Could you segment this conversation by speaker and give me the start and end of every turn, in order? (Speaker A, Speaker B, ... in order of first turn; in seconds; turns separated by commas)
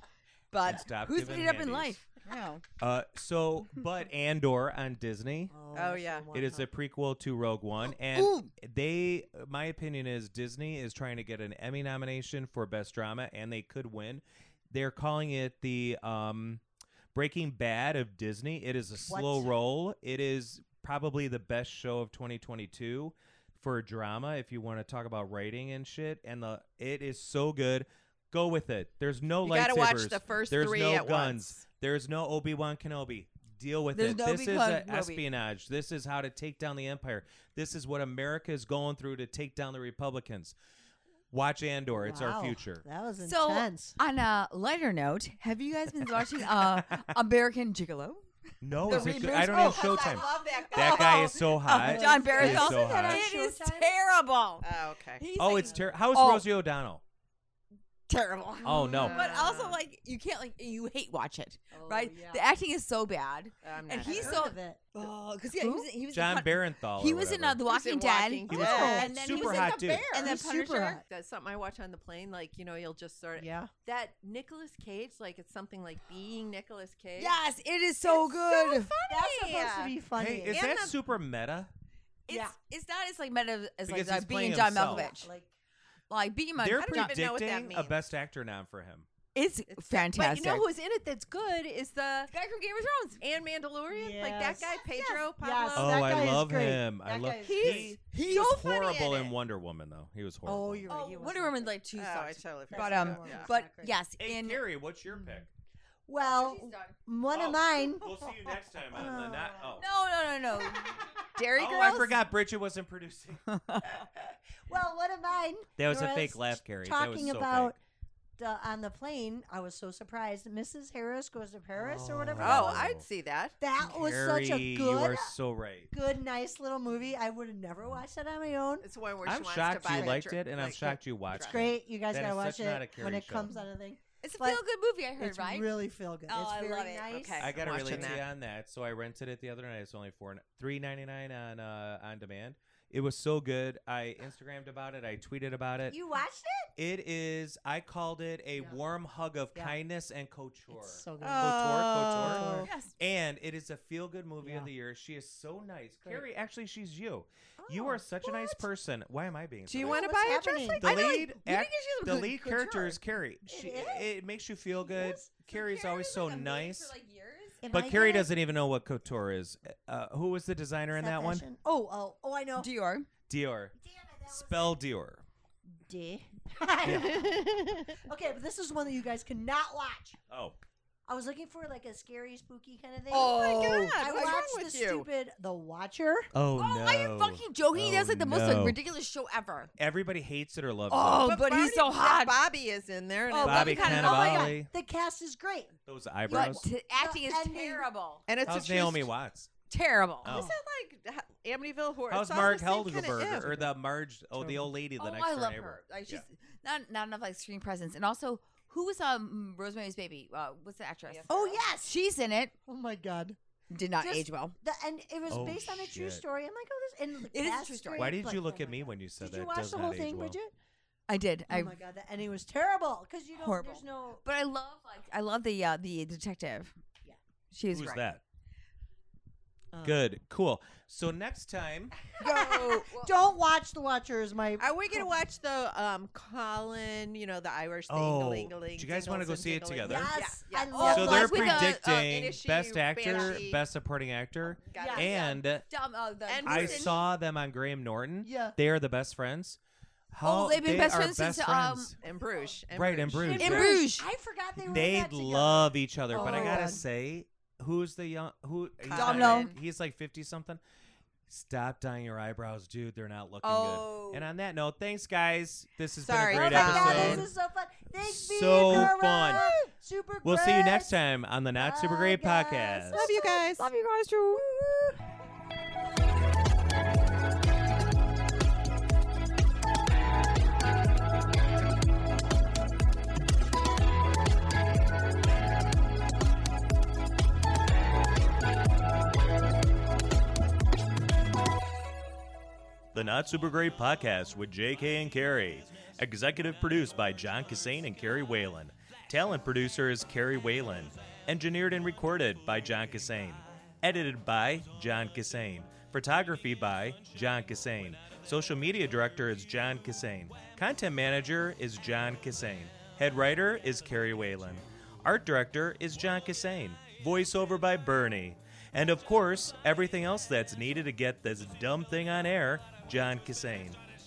Speaker A: 0.5-2.6, Speaker B: 0.6-2.0, Speaker B: 2.8-5.5, Speaker C: 5.5-6.7, Speaker D: 5.7-6.3, Speaker B: 6.3-16.6, Speaker A: 8.1-8.5, Speaker B: 17.1-40.5, Speaker C: 19.1-19.5, Speaker D: 29.4-31.6, Speaker A: 33.9-35.2, Speaker B: 41.3-42.8, Speaker C: 41.9-44.0, Speaker A: 43.2-48.3, Speaker B: 46.2-47.2, Speaker B: 48.6-53.3, Speaker A: 48.8-56.5, Speaker D: 49.3-51.4, Speaker C: 51.7-53.9, Speaker D: 52.1-52.5, Speaker D: 54.6-55.2, Speaker B: 55.4-57.0, Speaker C: 55.6-55.9, Speaker A: 58.1-71.0, Speaker B: 58.6-59.2, Speaker D: 58.9-59.8, Speaker C: 61.7-62.5, Speaker D: 63.6-64.5, Speaker C: 64.0-64.8, Speaker C: 65.5-65.9, Speaker B: 66.1-67.6, Speaker D: 67.7-70.3, Speaker B: 68.5-70.2, Speaker C: 68.5-69.1, Speaker C: 70.1-71.0, Speaker D: 71.1-77.3, Speaker C: 73.4-73.7, Speaker A: 77.2-78.9, Speaker D: 78.0-80.0, Speaker C: 79.1-80.6, Speaker B: 80.2-81.7, Speaker D: 80.5-81.0, Speaker A: 82.3-85.3, Speaker C: 82.3-82.5, Speaker B: 83.8-85.1, Speaker C: 84.9-85.5, Speaker A: 86.1-87.1, Speaker B: 86.6-89.1, Speaker D: 86.8-87.9, Speaker A: 89.3-90.7, Speaker D: 89.7-92.3, Speaker A: 92.3-93.2, Speaker D: 93.2-96.2, Speaker C: 93.9-97.9, Speaker B: 95.7-100.9, Speaker D: 97.4-99.3, Speaker C: 100.4-101.8, Speaker A: 100.9-104.6, Speaker D: 101.9-103.5, Speaker C: 102.7-103.9, Speaker B: 104.2-105.5, Speaker C: 105.1-105.4, Speaker C: 106.1-108.2, Speaker A: 106.2-107.0, Speaker B: 107.3-109.8, Speaker C: 108.9-109.8, Speaker A: 109.8-112.2, Speaker C: 110.5-111.2, Speaker B: 111.5-113.5, Speaker A: 113.5-114.0, Speaker C: 114.7-117.8, Speaker B: 115.8-117.7, Speaker C: 118.4-122.9, Speaker B: 121.7-123.0, Speaker D: 122.4-123.5, Speaker C: 123.6-125.3, Speaker B: 123.8-125.9, Speaker C: 125.9-128.8, Speaker D: 128.8-131.7, Speaker B: 129.2-133.5, Speaker C: 129.9-130.2, Speaker C: 131.4-134.6, Speaker A: 134.2-137.9, Speaker C: 135.2-138.1, Speaker D: 137.1-138.2, Speaker B: 137.4-146.0, Speaker C: 145.9-146.7, Speaker B: 146.8-160.2, Speaker C: 150.7-152.7, Speaker D: 151.2-152.7, Speaker A: 152.6-152.9, Speaker C: 154.4-154.7, Speaker C: 157.6-158.7, Speaker D: 159.7-160.7, Speaker C: 159.8-161.0, Speaker A: 160.5-162.8, Speaker B: 160.8-166.9, Speaker C: 162.5-164.1, Speaker C: 164.8-165.3, Speaker A: 165.5-167.7, Speaker C: 167.6-168.3, Speaker B: 167.7-171.5, Speaker C: 171.0-172.7, Speaker A: 172.6-173.1, Speaker B: 173.3-173.7, Speaker C: 173.8-174.8, Speaker B: 174.3-175.2, Speaker C: 175.7-180.2, Speaker B: 176.8-177.3, Speaker D: 176.9-177.9, Speaker B: 180.3-180.6, Speaker C: 181.1-186.3, Speaker A: 183.1-184.4, Speaker D: 183.1-185.1, Speaker B: 186.3-188.8, Speaker A: 186.6-189.7, Speaker B: 189.8-191.4, Speaker A: 190.9-192.4, Speaker D: 191.2-194.3, Speaker A: 193.3-194.6, Speaker C: 193.3-195.7, Speaker B: 193.4-194.7, Speaker B: 195.8-196.7, Speaker A: 196.3-198.2, Speaker C: 196.3-197.8, Speaker D: 198.3-199.1, Speaker B: 198.4-199.5, Speaker A: 199.7-200.4, Speaker B: 200.2-200.6, Speaker D: 200.2-203.6, Speaker B: 202.1-206.2, Speaker C: 204.3-204.7, Speaker A: 205.0-212.5, Speaker C: 211.3-211.9, Speaker C: 212.7-213.4, Speaker A: 213.7-214.6, Speaker C: 214.0-220.5, Speaker B: 215.3-216.2, Speaker A: 217.3-218.2, Speaker B: 217.9-220.4, Speaker A: 221.1-221.8, Speaker C: 221.5-224.2, Speaker A: 223.4-226.7, Speaker A: 227.5-228.0, Speaker B: 227.7-228.2, Speaker C: 229.7-230.0, Speaker B: 229.8-231.9, Speaker C: 232.2-235.1, Speaker A: 232.2-233.1, Speaker D: 234.6-243.6, Speaker B: 237.9-240.1, Speaker C: 239.8-241.7, Speaker A: 240.7-242.2, Speaker B: 240.8-245.7, Speaker C: 243.1-243.4, Speaker D: 244.7-245.4, Speaker C: 244.8-245.4, Speaker A: 245.7-247.0, Speaker D: 246.3-247.0, Speaker B: 246.4-249.6, Speaker C: 248.2-248.6, Speaker B: 250.1-252.0, Speaker A: 250.2-251.9, Speaker D: 252.0-253.7, Speaker B: 252.7-253.8, Speaker C: 253.2-256.8, Speaker A: 253.4-254.1, Speaker B: 254.6-260.6, Speaker A: 256.1-256.6, Speaker D: 258.8-259.6, Speaker A: 258.9-259.5, Speaker B: 261.3-267.3, Speaker A: 263.4-264.3, Speaker D: 266.0-267.3, Speaker C: 266.3-270.9, Speaker B: 268.0-269.5, Speaker A: 269.2-269.7, Speaker B: 270.2-273.1, Speaker C: 271.6-273.4, Speaker D: 272.9-273.7, Speaker A: 273.1-275.0, Speaker B: 292.9-323.8